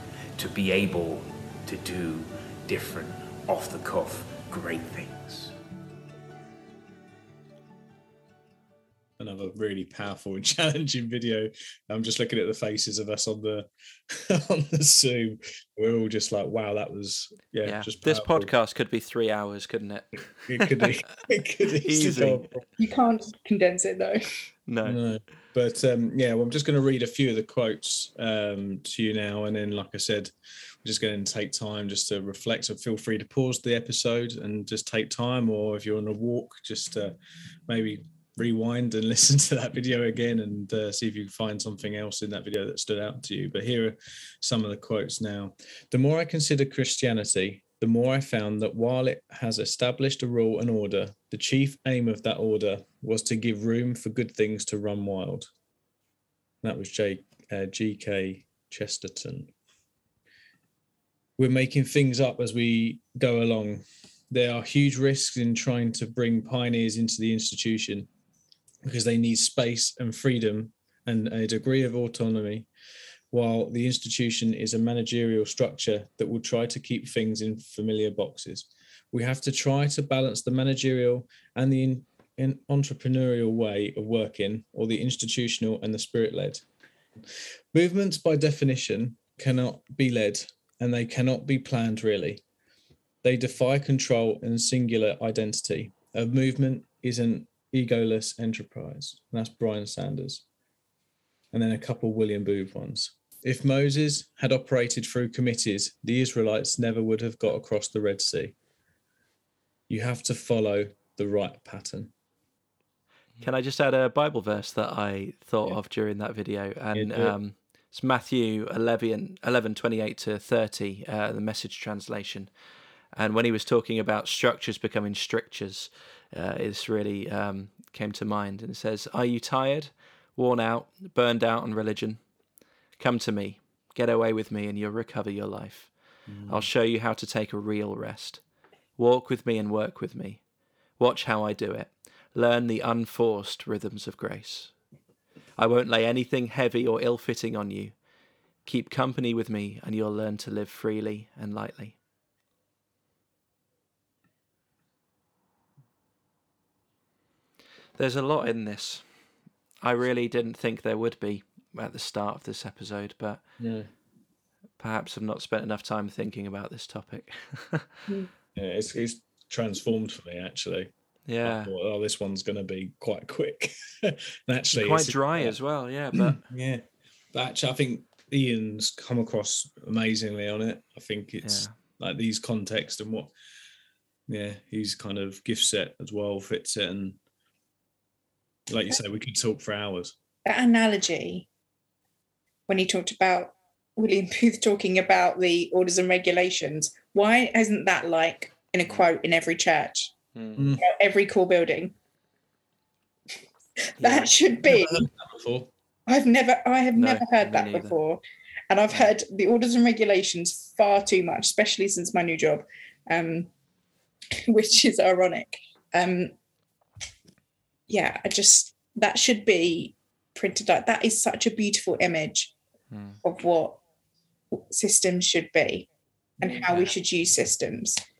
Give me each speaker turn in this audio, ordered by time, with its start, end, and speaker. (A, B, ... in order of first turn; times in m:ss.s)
0:00.4-0:05.5 A
0:09.2-0:18.5 B
0:17.6-0:21.1 C
0:20.4-0:22.6 B
0:21.8-0:22.5 C
0:22.8-0:24.2 D
0:24.7-0:25.0 C
0:24.8-0:30.3 B
0:30.8-0:55.5 B
0:56.6-0:59.5 B
1:01.4-1:08.1 B
1:08.8-1:12.7 B
1:13.3-1:26.6 B
1:27.7-1:32.4 B
1:33.2-1:40.4 B
1:41.5-1:48.6 B
1:49.9-1:52.1 B
1:53.4-2:02.5 C
1:56.9-1:57.4 B
2:03.1-2:12.2 C
2:13.0-2:15.9 C
2:16.3-2:16.7 B
2:16.5-2:18.4 C
2:19.0-2:20.4 C
2:21.0-2:24.7 C
2:25.6-2:27.9 C
2:28.6-2:32.0 C
2:38.0-2:39.0 C
2:39.8-2:43.4 C
2:43.6-2:43.9 B
2:44.8-2:48.0 C
2:48.5-2:50.9 B
2:51.3-2:51.7 C
2:51.4-2:55.6 B
2:54.7-2:56.4 C
2:56.1-3:03.3 B
3:01.4-3:01.7 C
3:04.3-3:07.2 B
3:08.7-3:10.1 B
3:10.4-3:11.5 D
3:12.7-3:20.1 D
3:20.3-3:20.7 C
3:20.6-3:20.8 B
3:20.8-3:21.9 D
3:24.0-3:25.0 D
3:24.0-3:24.3 C
3:24.6-3:25.7 B
3:26.1-3:33.5 D
3:26.9-3:28.0 C
3:34.5-3:36.3 D
3:37.9-3:42.5 D
3:42.9-3:43.2 C
3:43.2-3:43.8 D
3:44.5-3:45.9 D
3:46.4-3:48.0 D
3:46.6-3:46.9 C